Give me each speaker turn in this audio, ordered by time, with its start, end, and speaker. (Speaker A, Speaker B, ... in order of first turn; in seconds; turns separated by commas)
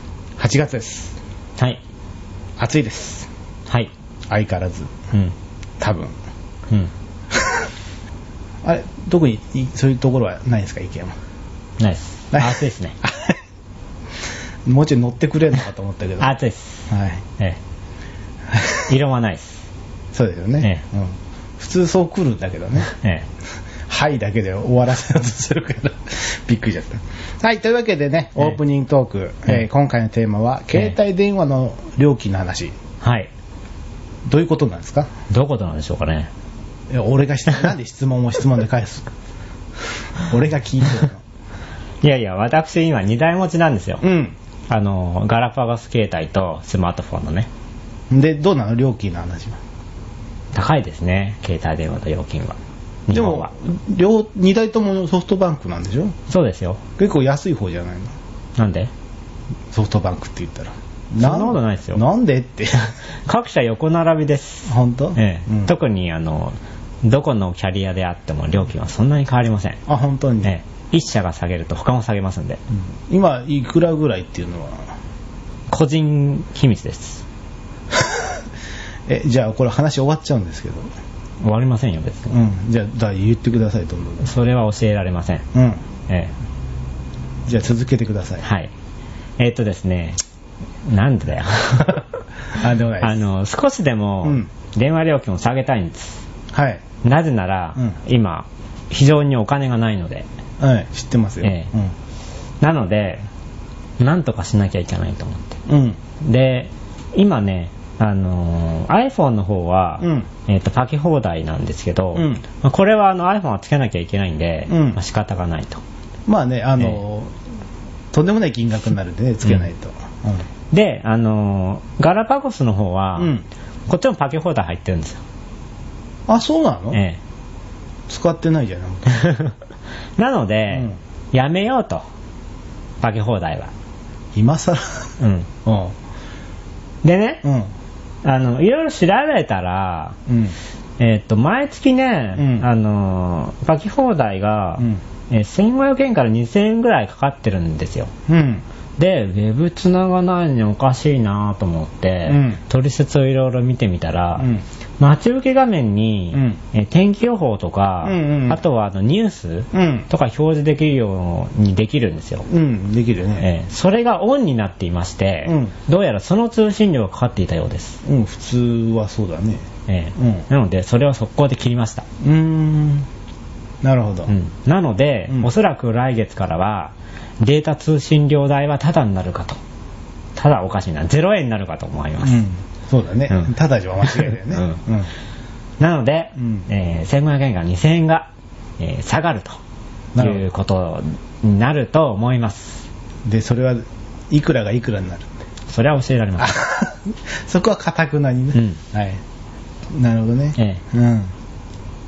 Speaker A: 0.4-1.1, Speaker A: 2.6-3.3, Speaker A: 4.3-4.9, Speaker A: 5.8-6.1, Speaker A: 8.6-11.2, Speaker B: 11.8-13.0, Speaker A: 12.3-13.4, Speaker A: 14.7-16.3, Speaker B: 16.2-16.9, Speaker A: 16.9-17.2, Speaker A: 18.5-18.8, Speaker B: 18.9-19.6, Speaker A: 20.1-22.9, Speaker B: 22.9-23.3, Speaker A: 23.9-32.8, Speaker B: 33.0-33.3, Speaker A: 34.3-35.1, Speaker B: 35.3-36.3, Speaker A: 36.9-39.1, Speaker A: 40.3-41.2, Speaker B: 42.0-44.0, Speaker A: 44.0-44.4, Speaker B: 44.7-47.5, Speaker A: 48.1-49.6, Speaker B: 50.5-53.5, Speaker A: 53.1-56.1, Speaker B: 56.3-56.8, Speaker A: 57.0-58.1, Speaker B: 58.6-58.9, Speaker A: 59.7-62.9, Speaker B: 61.2-62.0, Speaker B: 63.2-69.8, Speaker A: 64.7-65.7, Speaker A: 69.9-70.5, Speaker B: 70.4-72.6, Speaker A: 73.1-74.8, Speaker B: 75.7-77.2, Speaker A: 77.9-78.3, Speaker A: 79.1-80.9, Speaker B: 81.4-82.3, Speaker A: 82.3-84.3, Speaker B: 84.2-85.5, Speaker A: 85.5-85.8, Speaker B: 86.1-86.3, Speaker A: 87.5-88.4, Speaker B: 88.4-88.7, Speaker B: 89.4-90.2, Speaker B: 90.8-92.0, Speaker A: 92.5-93.2, Speaker B: 93.0-96.2, Speaker A: 94.2-94.5, Speaker A: 96.5-96.8, Speaker B: 97.0-100.3, Speaker A: 100.6-101.9, Speaker B: 101.4-101.7, Speaker B: 102.6-103.2, Speaker B: 104.0-105.6, Speaker A: 105.7-106.0, Speaker B: 106.2-115.8, Speaker A: 110.0-110.3, Speaker A: 112.1-112.4, Speaker A: 114.7-115.0, Speaker A: 116.3-117.3, Speaker A: 118.1-120.5, Speaker B: 120.7-123.3, Speaker A: 123.2-123.4, Speaker B: 123.9-125.2, Speaker A: 126.3-127.0, Speaker B: 126.9-127.2, Speaker A: 128.1-129.4, Speaker B: 129.1-129.5, Speaker B: 130.2-132.0, Speaker B: 133.0-133.7, Speaker A: 134.3-135.1, Speaker B: 135.2-135.5, Speaker A: 135.6-135.9, Speaker B: 137.0-137.4, Speaker A: 137.4-137.7, Speaker B: 138.2-140.2, Speaker A: 140.3-140.5, Speaker B: 141.0-148.1, Speaker A: 142.4-142.7, Speaker A: 148.3-148.6, Speaker B: 149.0-154.5, Speaker A: 152.2-152.6, Speaker A: 154.4-154.6, Speaker B: 155.0-162.4, Speaker A: 156.3-156.6, Speaker A: 158.0-158.6, Speaker A: 159.7-160.1, Speaker A: 162.4-163.5, Speaker B: 163.4-168.0, Speaker A: 165.4-165.7, Speaker A: 168.0-170.4, Speaker B: 169.9-172.1, Speaker A: 172.2-173.1, Speaker A: 173.8-174.3, Speaker B: 174.3-179.6, Speaker B: 180.3-182.4, Speaker A: 182.2-185.1, Speaker B: 184.1-184.8, Speaker B: 185.8-189.6, Speaker A: 186.4-186.7, Speaker A: 190.1-190.5, Speaker B: 190.2-192.8, Speaker A: 193.2-195.3, Speaker B: 195.7-196.6, Speaker A: 196.4-199.2, Speaker A: 199.9-201.3